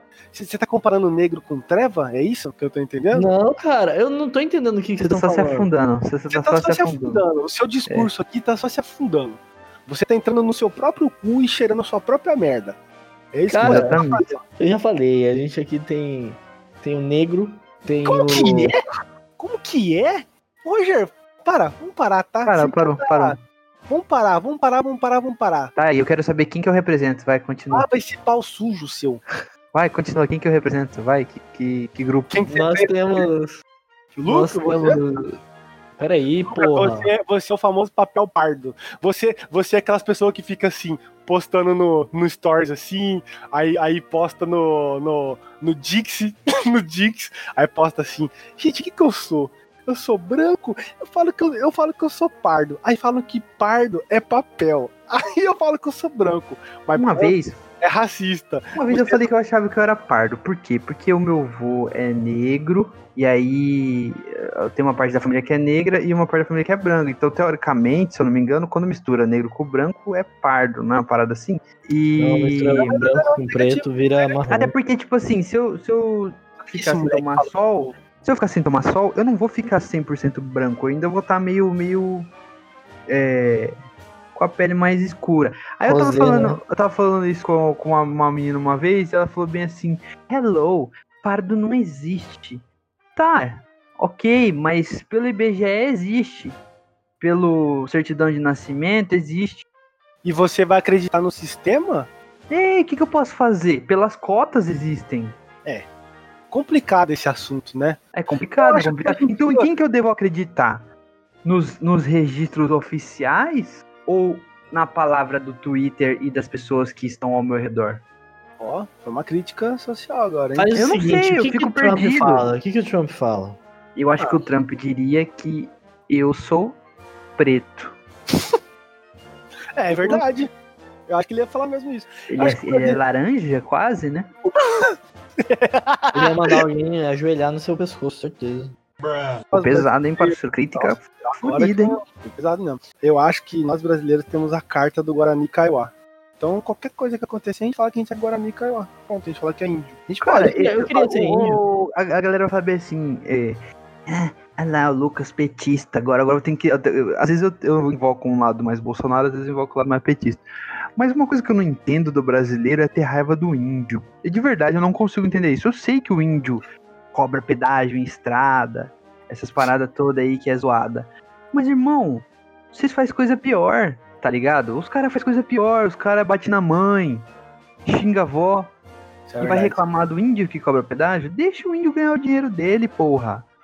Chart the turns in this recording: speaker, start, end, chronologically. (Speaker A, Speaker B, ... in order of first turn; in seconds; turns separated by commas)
Speaker A: 0.3-3.3, Speaker B: 3.1-5.7, Speaker C: 5.0-7.2, Speaker A: 6.3-12.8, Speaker A: 13.3-14.4, Speaker B: 13.5-14.0, Speaker C: 13.6-14.3, Speaker B: 14.6-18.7, Speaker A: 18.0-18.8, Speaker A: 19.4-23.4, Speaker C: 22.4-23.4, Speaker A: 23.9-25.7, Speaker C: 25.8-27.9, Speaker A: 27.7-29.2, Speaker C: 29.7-32.4, Speaker A: 32.3-33.2, Speaker B: 32.5-33.6, Speaker A: 34.1-35.0, Speaker B: 34.2-35.3, Speaker B: 36.0-37.1, Speaker A: 36.5-59.2, Speaker C: 56.9-57.6, Speaker C: 58.7-73.0, Speaker B: 72.2-74.7, Speaker A: 72.7-74.4, Speaker C: 74.5-82.3, Speaker A: 76.6-77.9, Speaker C: 83.1-83.7, Speaker C: 84.3-92.6, Speaker B: 85.8-86.6, Speaker C: 93.2-96.6, Speaker C: 97.2-99.6, Speaker A: 100.2-102.1, Speaker C: 102.5-105.4, Speaker A: 106.5-108.0, Speaker C: 108.1-110.9, Speaker A: 108.6-109.7, Speaker C: 111.4-118.0, Speaker A: 118.6-120.8, Speaker B: 120.5-123.6, Speaker C: 120.8-122.5, Speaker C: 124.0-126.8, Speaker C: 127.4-128.0, Speaker A: 129.8-130.5, Speaker A: 131.1-133.0, Speaker C: 132.3-134.3, Speaker A: 134.4-136.6, Speaker B: 136.1-138.8, Speaker A: 139.5-150.7, Speaker C: 139.5-142.0, Speaker C: 150.2-160.4, Speaker B: 150.3-151.6, Speaker C: 160.9-177.3, Speaker C: 177.8-178.7, Speaker A: 179.3-179.8, Speaker C: 179.4-183.4